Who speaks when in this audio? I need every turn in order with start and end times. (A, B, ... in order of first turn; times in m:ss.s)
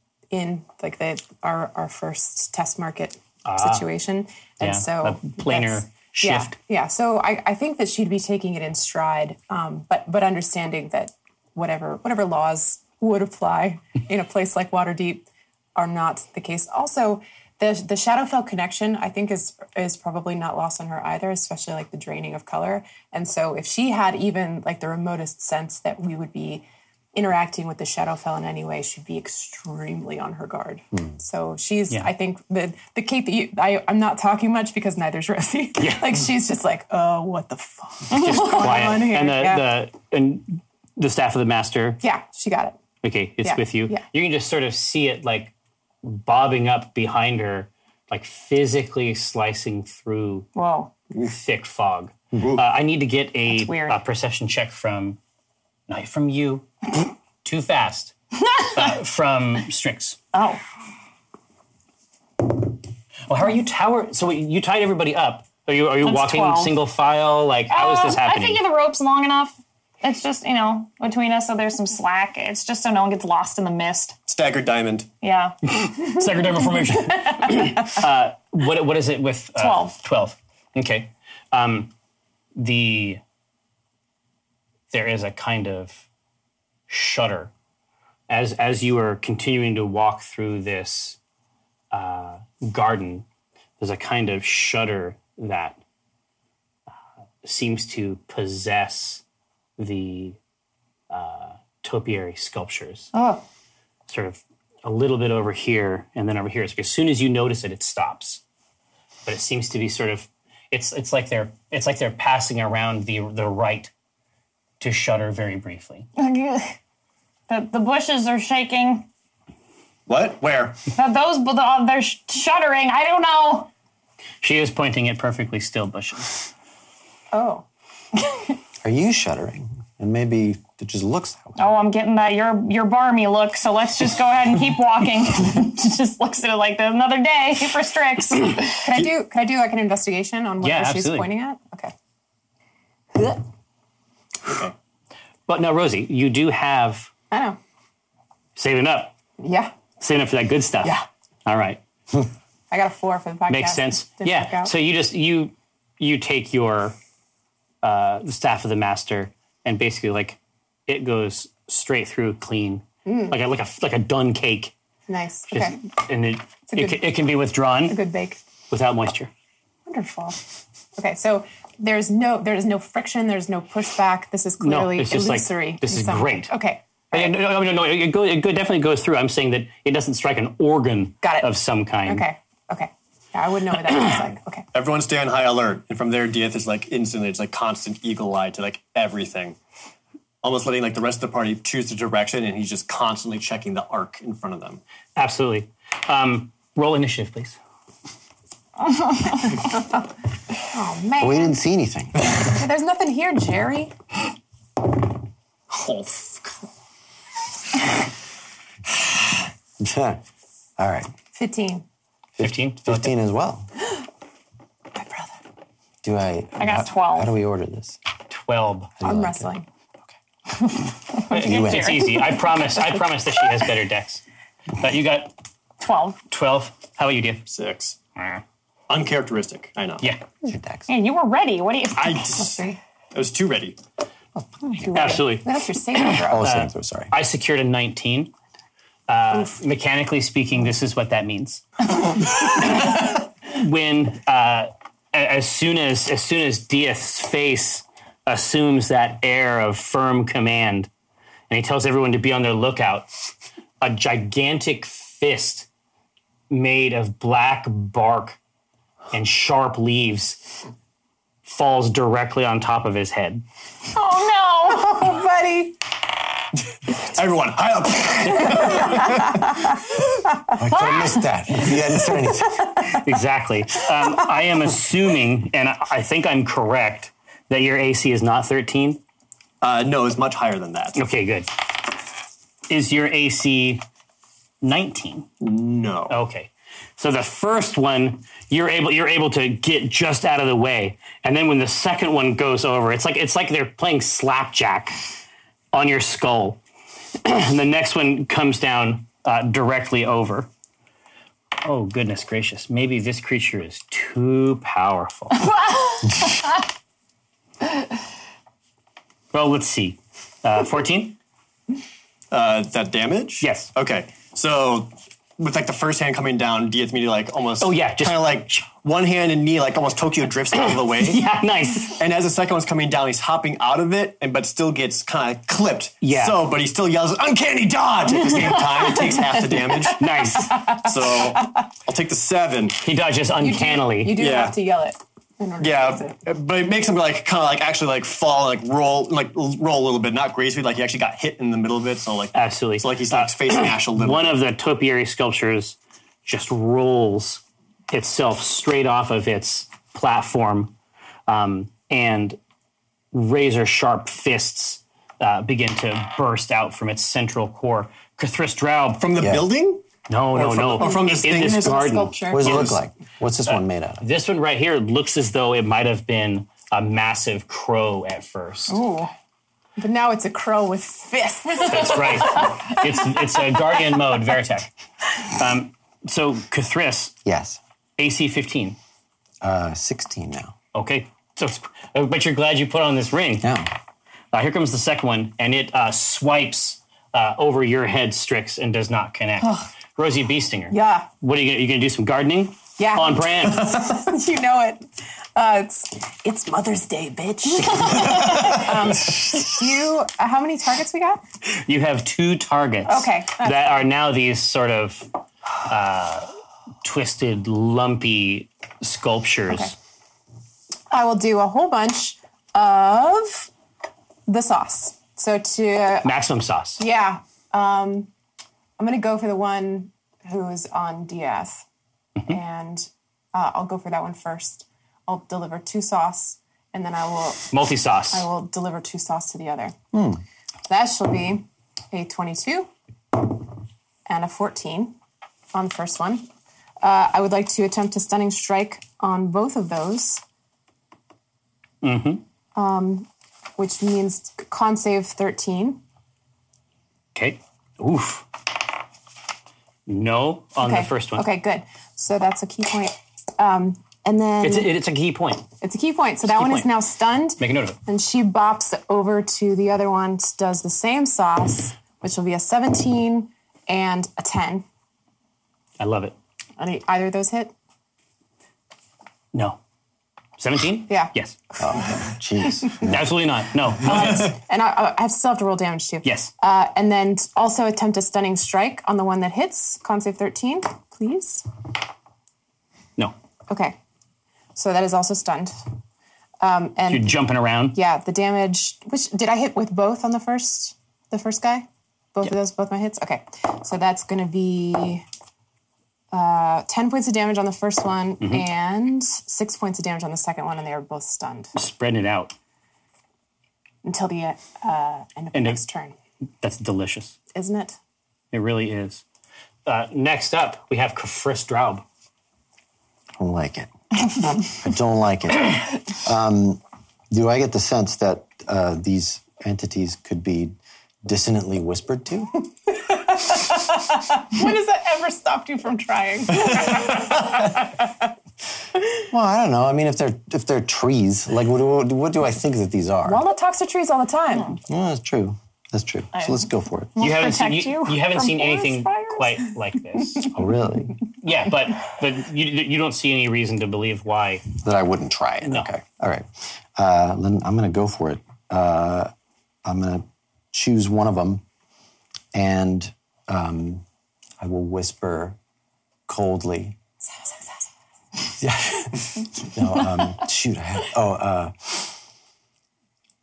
0:00.3-0:39.7 A
0:03.4-0:03.9 B
0:04.6-0:06.6 B
0:35.8-0:36.2 B
0:38.1-0:42.0 B
0:38.2-0:38.9 C
0:42.0-0:42.8 A
0:43.0-0:50.5 B
0:43.4-0:44.0 A
0:50.6-0:50.9 C
0:51.2-0:55.2 B
0:52.3-0:52.6 D
0:53.5-0:54.0 C
0:55.9-1:00.2 B
1:00.3-1:00.6 C
1:03.3-1:08.6 B
1:06.0-1:06.8 C
1:07.7-1:14.2 C
1:14.3-1:15.1 D
1:15.2-1:16.2 C
1:15.7-1:21.9 B
1:19.6-1:19.9 C
1:22.6-1:23.2 B
1:24.9-1:26.0 B
1:26.9-1:27.5 B
1:28.3-1:31.2 B
1:31.9-1:33.2 B
1:33.8-1:35.8 B
1:37.4-1:39.2 B
1:39.8-1:40.4 B
1:41.1-1:43.1 B
1:44.1-1:48.4 B
1:49.3-1:53.9 B
1:54.8-1:56.1 B
1:56.2-1:56.8 C
1:57.5-1:59.1 C
2:00.1-2:00.8 D
2:01.0-2:03.7 C
2:04.4-2:06.4 B
2:07.3-2:07.6 A
2:08.8-2:11.6 E
2:11.6-2:18.8 C
2:18.8-2:21.9 A
2:20.6-2:21.3 B
2:24.4-2:24.7 D
2:25.5-2:27.1 B
2:27.3-2:27.6 A
2:28.6-2:29.2 B
2:29.4-2:29.7 A
2:30.0-2:31.8 B
2:32.7-2:34.7 A
2:33.5-2:37.0 B
2:37.8-2:44.7 B
2:43.0-2:43.4 A
2:45.1-2:45.8 A
2:45.5-2:48.0 B
2:46.7-2:47.1 A
2:47.9-2:48.4 A
2:48.7-2:49.3 B
2:49.9-2:50.4 A
2:51.0-2:57.3 A
2:54.6-2:56.5 B
2:57.1-3:02.3 B
3:01.2-3:01.5 A
3:02.0-3:04.7 A
3:04.7-3:09.6 D
3:10.4-3:14.8 D
3:15.2-3:17.6 B
3:19.5-3:20.0 A
3:20.7-3:21.6 A
3:21.2-3:22.2 E
3:22.3-3:23.9 A
3:25.7-3:26.5 D
3:29.8-3:30.2 E
3:30.8-3:31.1 E
3:31.3-3:31.8 A
3:32.4-3:33.7 E
3:32.4-3:33.2 B
3:35.0-3:35.3 A
3:36.0-3:38.0 E
3:36.6-3:37.3 C
3:38.3-3:38.9 B
3:39.0-3:39.5 E
3:39.0-3:39.7 A
3:41.3-3:44.2 B
3:41.3-3:42.1 E
3:41.3-3:42.3 C
3:44.8-3:45.3 B
3:45.8-3:46.2 C
3:46.3-3:47.5 B
3:47.5-3:48.0 D
3:48.2-3:48.4 B
3:48.9-3:50.1 D
3:50.4-3:50.9 E
3:50.9-3:52.4 C
3:52.0-3:53.8 D
3:52.4-3:52.8 A
3:54.4-3:55.3 E
3:54.8-3:56.5 A
3:54.9-3:58.3 B
3:56.2-3:57.1 E
3:59.1-4:10.9 B
4:11.5-4:13.1 B
4:13.8-4:15.7 B
4:16.5-4:18.4 B
4:19.1-4:20.4 B
4:21.4-4:23.4 B
4:23.9-4:25.1 C
4:24.7-4:25.8 A
4:26.9-4:29.4 D
4:28.6-4:29.7 A
4:30.5-4:32.9 E
4:32.3-4:32.9 A
4:33.0-4:39.0 B
4:39.6-4:41.0 D
4:41.0-4:41.5 B
4:42.7-4:43.8 B
4:44.6-4:45.3 B
4:45.4-4:46.2 D
4:46.1-4:55.0 B
4:55.7-4:56.6 B
4:57.2-5:00.5 B
5:01.6-5:05.5 B
5:09.3-5:11.2 B
5:12.3-5:21.3 D
5:13.4-5:13.7 B
5:17.6-5:18.7 B
5:20.6-5:22.0 B
5:21.9-5:30.1 D
5:26.0-5:26.4 B
5:30.0-5:30.9 B
5:30.5-5:31.2 A
5:30.8-5:32.8 D
5:32.8-5:34.2 B
5:33.4-5:36.2 A
5:34.2-5:34.6 D
5:35.6-5:44.4 D
5:42.3-5:50.8 B
5:51.3-5:52.4 B
5:53.1-5:59.0 B
5:59.0-6:01.9 D
5:59.2-5:59.5 E
6:00.1-6:02.8 B
6:00.7-6:02.7 A
6:02.3-6:04.0 E
6:03.5-6:08.8 B
6:08.7-6:09.1 A
6:09.8-6:12.9 A
6:11.7-6:17.2 B
6:17.2-6:17.6 E
6:18.0-6:18.8 B
6:19.4-6:20.6 E
6:20.7-6:23.5 B
6:23.4-6:23.7 E
6:24.3-6:33.8 B
6:30.7-6:31.1 A
6:32.8-6:41.2 A
6:37.7-6:38.6 B
6:41.5-6:45.1 B
6:42.9-6:43.8 A
6:45.7-6:46.3 B
6:46.8-6:49.7 B
6:50.9-6:53.5 A
6:54.3-6:56.2 A
6:56.0-6:56.8 B
6:56.8-6:58.1 A
6:58.8-7:01.6 A
7:02.3-7:07.5 A
7:07.5-7:08.3 B
7:08.1-7:09.8 A
7:10.7-7:13.4 A
7:14.1-7:15.0 A
7:15.5-7:16.3 A
7:16.8-7:20.2 A
7:21.8-7:22.2 B
7:22.6-7:25.8 A
7:27.2-7:28.3 B
7:29.9-7:31.3 B
7:30.6-7:34.8 A
7:34.4-7:35.5 B
7:35.6-7:44.6 A
7:36.2-7:36.8 B
7:37.4-7:37.8 B
7:45.8-7:46.2 B
7:46.6-7:47.5 A
7:49.3-7:49.6 B
7:50.4-7:51.4 B
7:50.9-7:52.8 A
7:51.6-7:53.1 E
7:52.7-7:54.4 B
7:53.8-8:01.5 A
7:56.0-7:56.3 B
8:03.5-8:03.8 A
8:04.6-8:05.6 A
8:06.4-8:15.0 A
8:06.9-8:07.8 B
8:16.1-8:21.5 A
8:18.2-8:18.5 B
8:21.6-8:22.3 B
8:23.8-8:26.0 A
8:25.3-8:25.6 B
8:26.4-8:27.2 B
8:27.3-8:27.8 A
8:28.3-8:29.0 B
8:29.7-8:31.8 B
8:33.2-8:42.4 E
8:42.8-8:47.9 A
8:49.1-8:53.2 E
8:53.0-8:54.6 A
8:54.7-8:57.0 E
8:57.0-8:59.4 C
8:57.0-9:00.3 B
9:00.3-9:01.0 E
9:01.2-9:04.4 B
9:04.6-9:09.1 E
9:05.4-9:05.7 B
9:09.6-9:11.4 E
9:12.3-9:13.8 E
9:14.4-9:15.4 E
9:16.1-9:16.8 E
9:18.3-9:22.0 E